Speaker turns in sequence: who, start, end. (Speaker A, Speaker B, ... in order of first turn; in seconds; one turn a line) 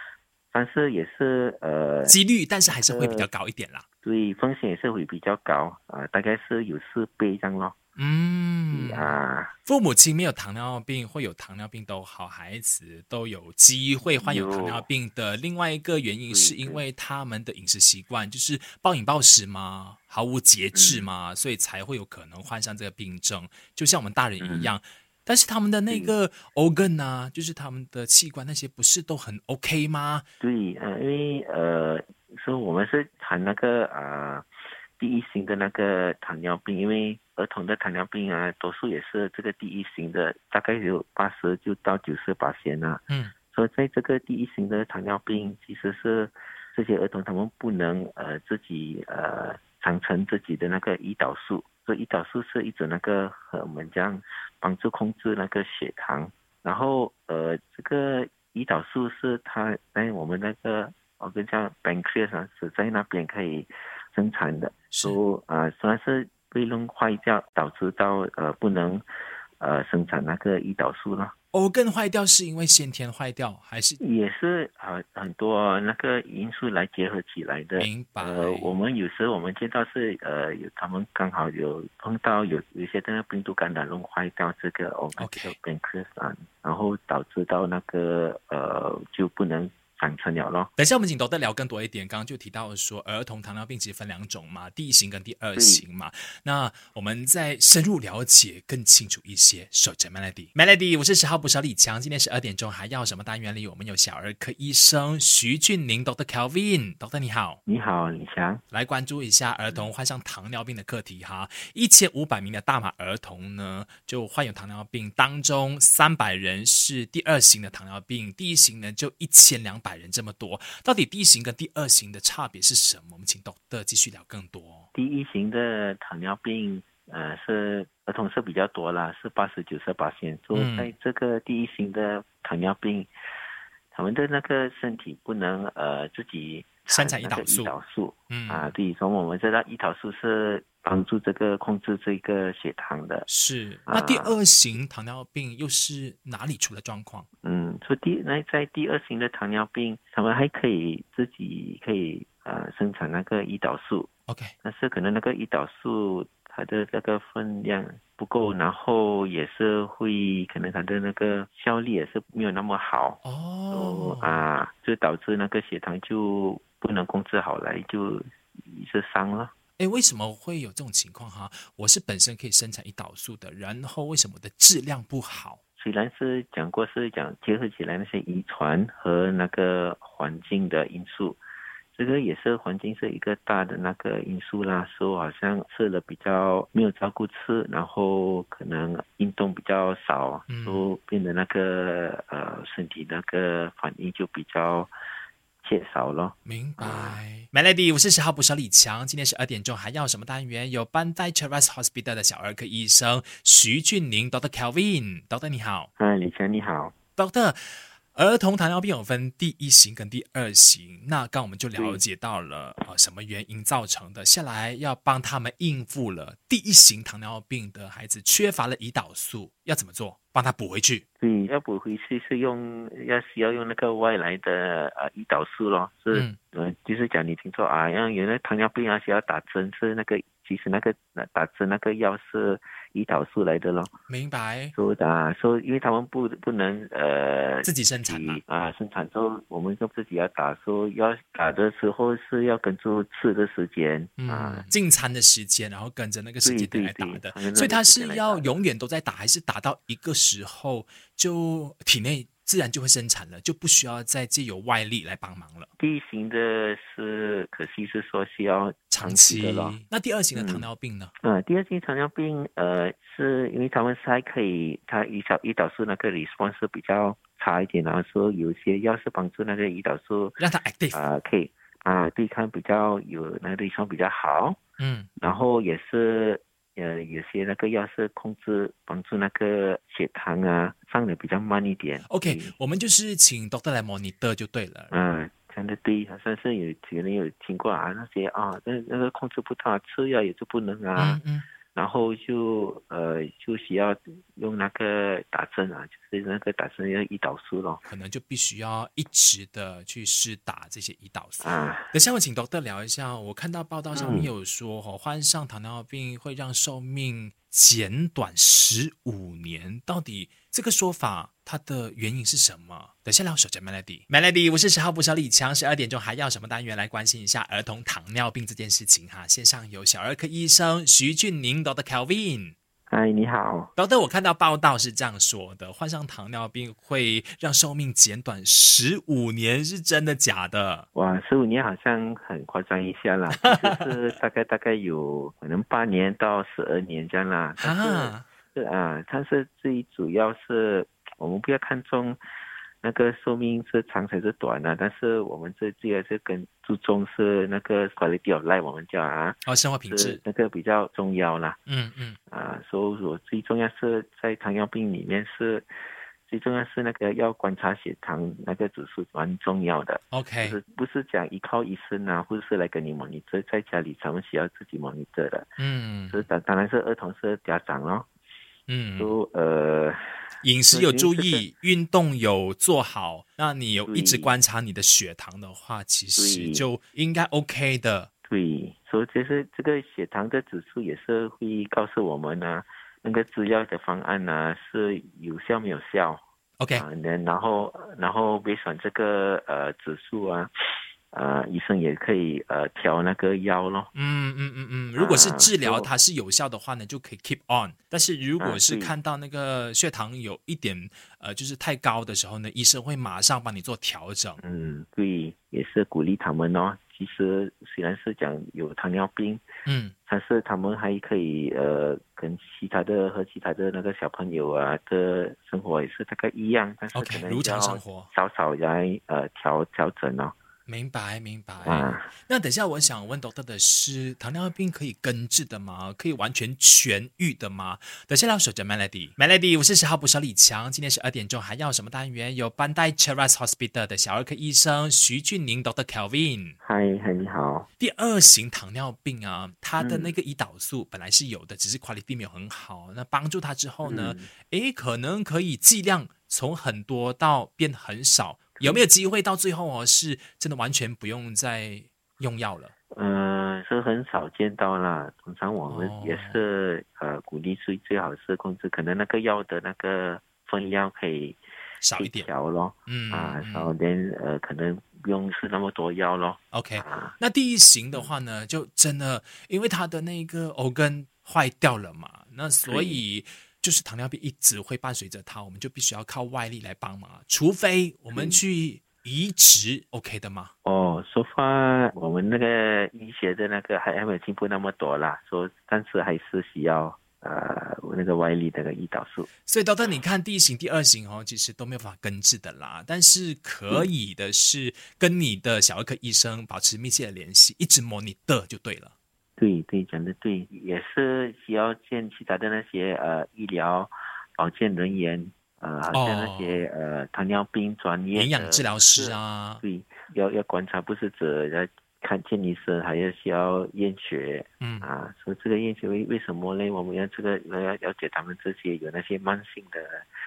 Speaker A: 0.5-2.1
Speaker B: 2.0-3.8
Speaker A: 2.7-3.3
Speaker A: 4.0-7.8
Speaker B: 8.0-30.2
Speaker A: 8.7-9.5
Speaker A: 14.2-14.8
Speaker A: 16.3-16.8
Speaker A: 20.7-21.1
Speaker A: 24.4-24.7
Speaker A: 30.4-34.5
Speaker A: 35.0-69.0
Speaker B: 64.9-65.2
Speaker A: 69.6-71.3
Speaker B: 71.5-74.0
Speaker A: 74.0-90.7
Speaker B: 77.8-78.7
Speaker B: 85.2-85.5
Speaker B: 90.8-107.6
Speaker A: 95.5-95.8
Speaker A: 107.7-108.6
Speaker B: 108.7-124.9
Speaker A: 124.9-133.1
Speaker B: 130.5-130.9
Speaker A: 133.9-143.3
Speaker B: 136.9-137.7
Speaker B: 138.3-138.7
Speaker B: 143.3-147.2
Speaker A: 143.9-144.4
Speaker A: 147.4-154.1
Speaker B: 154.3-154.5
Speaker A: 154.6-169.5
Speaker B: 163.2-164.5
Speaker B: 169.8-175.6
Speaker A: 175.8-181.4
Speaker A: 181.9-194.9
Speaker B: 190.5-190.9
Speaker A: 195.6-197.2
Speaker B: 196.4-205.9
Speaker A: 206.0-206.9
Speaker B: 207.2-221.0
Speaker A: 211.8-212.0
Speaker A: 221.2-233.9
Speaker B: 226.1-226.4
Speaker B: 234.1-234.7
Speaker A: 234.7-244.7
Speaker B: 237.6-238.4
Speaker B: 244.2-255.7
Speaker A: 246.4-248.6
Speaker A: 255.8-259.8
Speaker B: 258.9-261.1
Speaker A: 260.3-260.7
Speaker A: 261.2-270.4
Speaker B: 270.4-271.0
Speaker A: 270.9-274.6
Speaker B: 274.8-275.1
Speaker A: 275.2-282.5
Speaker B: 282.1-284.9
Speaker A: 284.9-291.2
Speaker B: 290.9-291.4
Speaker A: 291.7-297.8
Speaker B: 297.9-322.5
Speaker A: 301.4-301.9
Speaker A: 303.9-304.3
Speaker A: 322.9-323.7
Speaker B: 323.8-330.9
Speaker A: 330.9-342.2
Speaker B: 333.4-334.1
Speaker B: 337.6-338.2
Speaker A: 342.8-351.6
Speaker B: 349.4-350.2
Speaker B: 351.7-352.2
Speaker A: 352.3-355.7
Speaker A: 356.3-365.5
Speaker B: 360.1-360.6
Speaker B: 365.6-366.2
Speaker A: 366.1-368.1
Speaker B: 368.7-369.1
Speaker A: 369.0-370.0
Speaker B: 370.4-378.1
Speaker A: 370.7-371.4
Speaker A: 373.9-374.4
Speaker A: 376.1-376.7
Speaker A: 378.3-390.5
Speaker B: 386.6-386.8
Speaker A: 391.1-393.9
Speaker B: 393.9-404.4
Speaker A: 394.9-395.9
Speaker A: 398.4-398.9
Speaker A: 404.4-409.4
Speaker B: 409.6-409.9
Speaker A: 410.1-420.3
Speaker B: 416.9-418.1
Speaker B: 420.7-436.6
Speaker A: 421.6-422.1
Speaker A: 436.6-437.7
Speaker B: 437.8-452.7
Speaker A: 439.8-440.1
Speaker A: 443.8-444.3
Speaker A: 448.6-448.9
Speaker A: 452.9-461.4
Speaker B: 455.7-456.4
Speaker B: 461.8-462.3
Speaker A: 462.0-467.2
Speaker B: 462.9-463.7
Speaker B: 466.5-480.5
Speaker A: 472.6-473.0
Speaker A: 478.1-478.4
Speaker A: 480.6-489.3
Speaker B: 489.4-498.9
Speaker A: 499.4-520.0
Speaker B: 505.9-506.6
Speaker B: 508.1-509.6
Speaker B: 514.6-514.9